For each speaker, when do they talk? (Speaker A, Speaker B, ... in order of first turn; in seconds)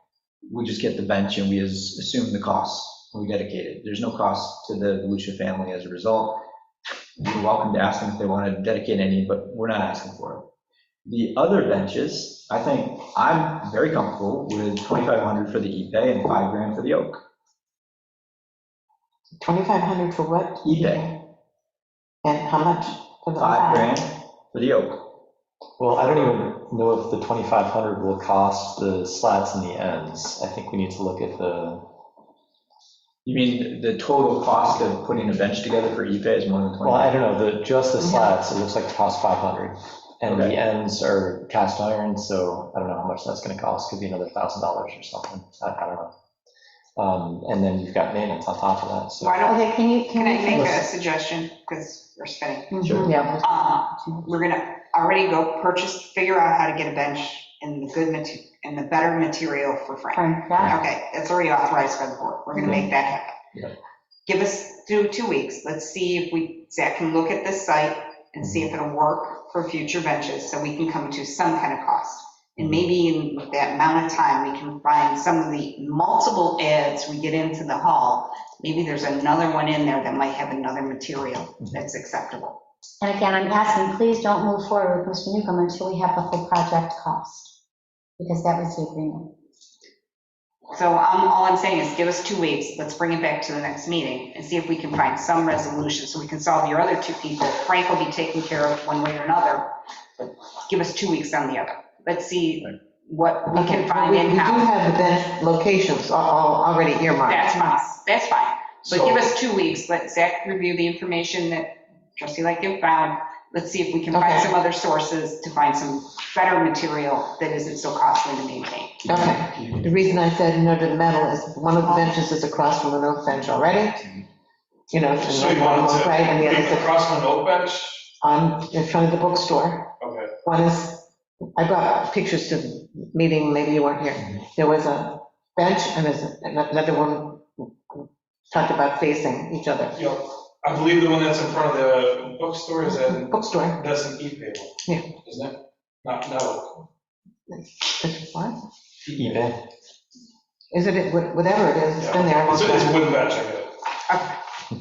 Speaker A: 0.5-6.4, 7.2-10.5, 11.1-17.2, 20.6-21.1, 23.4-25.1, 33.2-37.2, 40.2-40.6, 52.8-53.1
Speaker B: 19.4-21.1, 22.2-23.9, 53.0-53.5, 103.5-107.6, 114.1-114.5, 119.0-124.2, 124.9-126.9, 128.2-129.9, 130.4-137.4, 138.5-139.9, 142.8-143.8, 147.5-148.6, 150.7-153.0
Speaker C: 25.8-31.9, 36.8-46.1, 47.0-49.4, 68.4-68.7, 72.6-72.8, 119.1-119.8, 149.1-149.7
Speaker D: 49.2-52.8, 53.4-63.4, 64.2-82.6, 90.7-99.8, 100.7-104.7, 107.3-119.1, 154.1-154.3
Speaker E: 49.4-50.8, 52.7-53.3, 60.1-60.8, 83.0-87.5, 88.2-89.3
Speaker F: 125.2-128.1, 130.0-130.3, 140.0-146.8, 149.1-149.4, 152.0-153.7